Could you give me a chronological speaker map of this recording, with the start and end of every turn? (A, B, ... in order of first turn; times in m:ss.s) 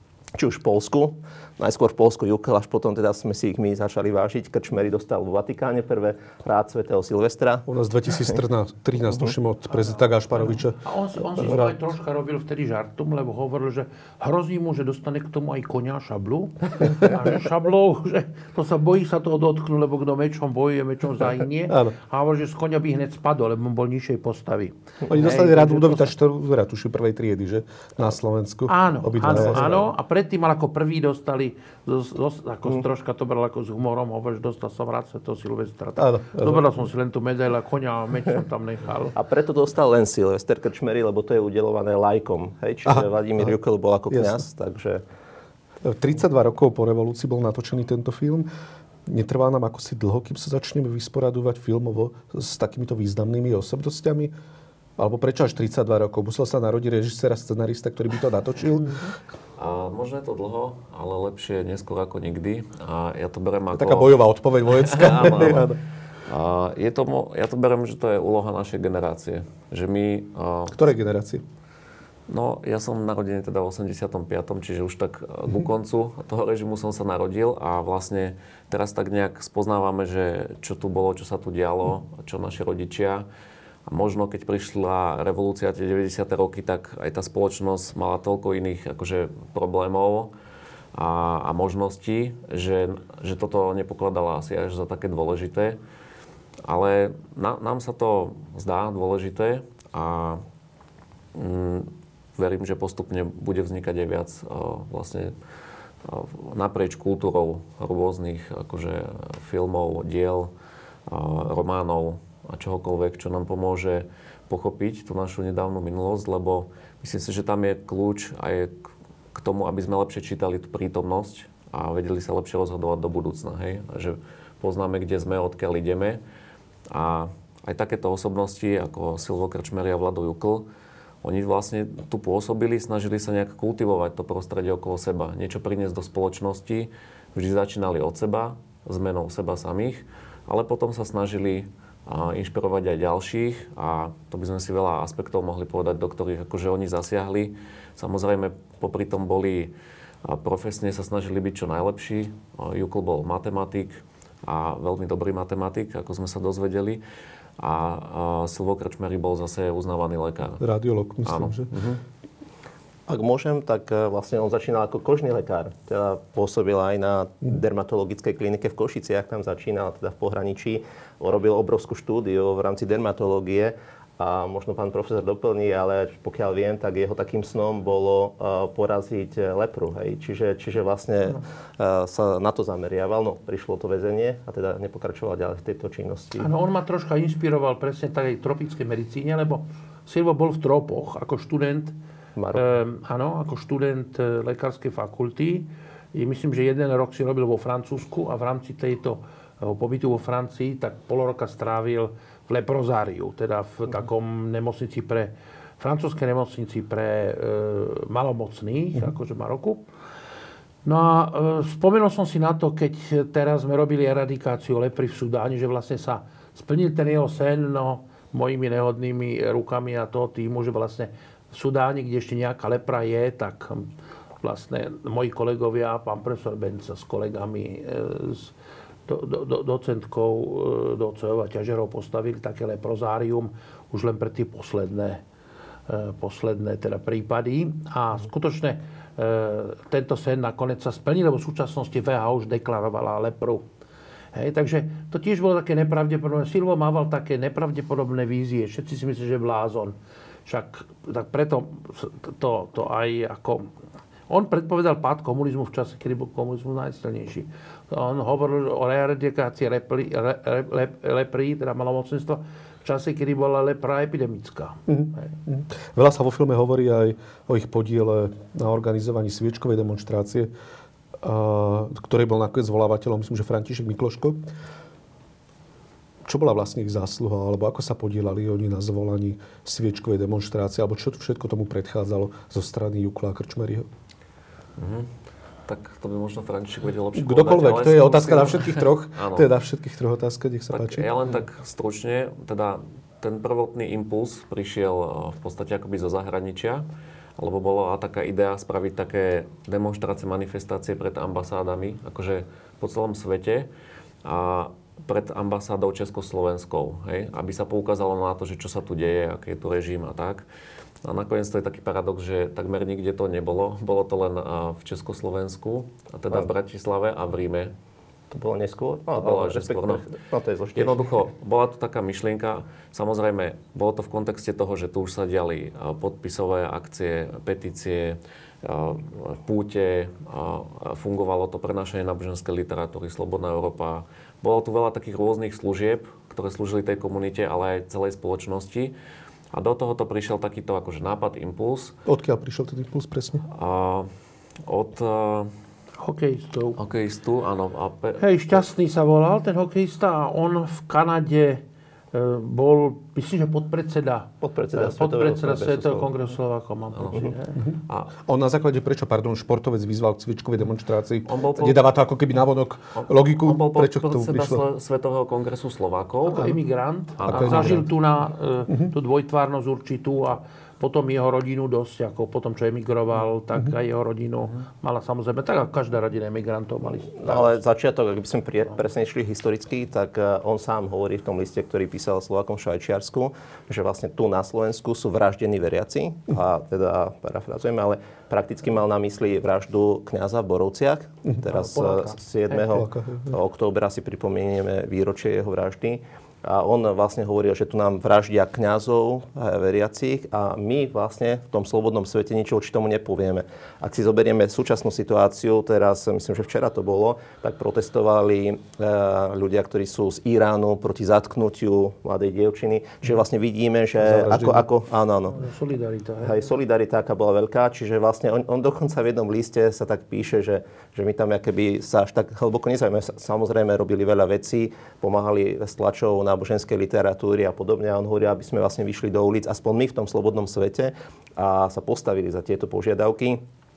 0:00.4-0:08.2 A
0:07.7-0:10.8 B
0:10.4-0:26.1 C
0:11.4-0:11.8 B
0:21.7-0:22.0 B
0:25.1-0:29.7 B
0:28.7-0:39.1 C
0:29.3-0:29.9 A
0:36.0-0:36.7 B
0:39.2-0:45.0 A
0:42.9-0:43.6 B
0:44.1-0:44.4 B
0:45.8-0:48.5 B
0:49.1-0:54.3 B
0:55.0-0:59.1 B
0:59.6-1:04.2 D
1:03.7-1:05.8 B
1:04.8-1:05.8 D
1:06.3-1:10.8 D
1:10.7-1:11.4 B
1:12.3-1:23.3 D
1:23.9-1:30.3 D
1:31.0-1:35.8 D
1:36.6-1:40.4 D
1:41.4-1:45.3 D
1:46.0-1:50.5 D
1:51.1-1:58.7 D
1:59.3-2:06.2 D
2:06.9-2:10.7 D
2:11.2-2:29.7 D
2:30.2-2:37.0 D
2:37.6-2:40.6 D
2:40.6-2:41.7 B
2:41.2-2:42.0 D
2:43.1-3:06.5 A
3:06.4-3:12.0 C
3:12.4-3:12.8 A
3:12.5-3:29.8 C
3:30.8-3:43.9 C
3:44.4-3:48.5 C
3:49.1-3:55.2 C
3:55.9-4:03.6 C
4:04.3-4:10.0 C
4:10.5-4:13.7 C
4:14.3-4:25.3 C
4:24.9-4:30.5 B
4:31.2-4:34.4 B
4:36.2-4:43.9 B
4:44.8-4:45.1 D
4:45.7-4:49.5 D
4:47.2-4:51.1 B
4:50.7-4:56.9 D
4:57.4-5:03.7 D
5:04.2-5:10.4 D
5:11.0-5:17.7 D
5:18.3-5:21.0 A
5:19.2-5:20.1 D
5:20.8-5:38.9 D
5:39.5-5:42.0 D
5:42.1-5:43.4 B
5:43.5-5:44.1 D
5:44.6-5:45.5 D
5:46.0-5:46.8 C
5:46.8-5:48.6 D
5:48.2-5:51.6 C
5:52.1-5:57.6 C
5:54.4-5:56.2 A
5:57.0-5:57.3 D
5:58.2-6:04.6 B
6:01.3-6:01.9 D
6:03.0-6:06.6 D
6:06.2-6:17.6 C
6:07.2-6:07.9 D
6:07.2-6:07.9 B
6:17.0-6:55.4 A
6:31.5-6:32.7 C
6:32.7-6:33.4 B
6:54.0-6:54.7 B
6:55.3-6:56.5 C
6:56.2-7:13.4 A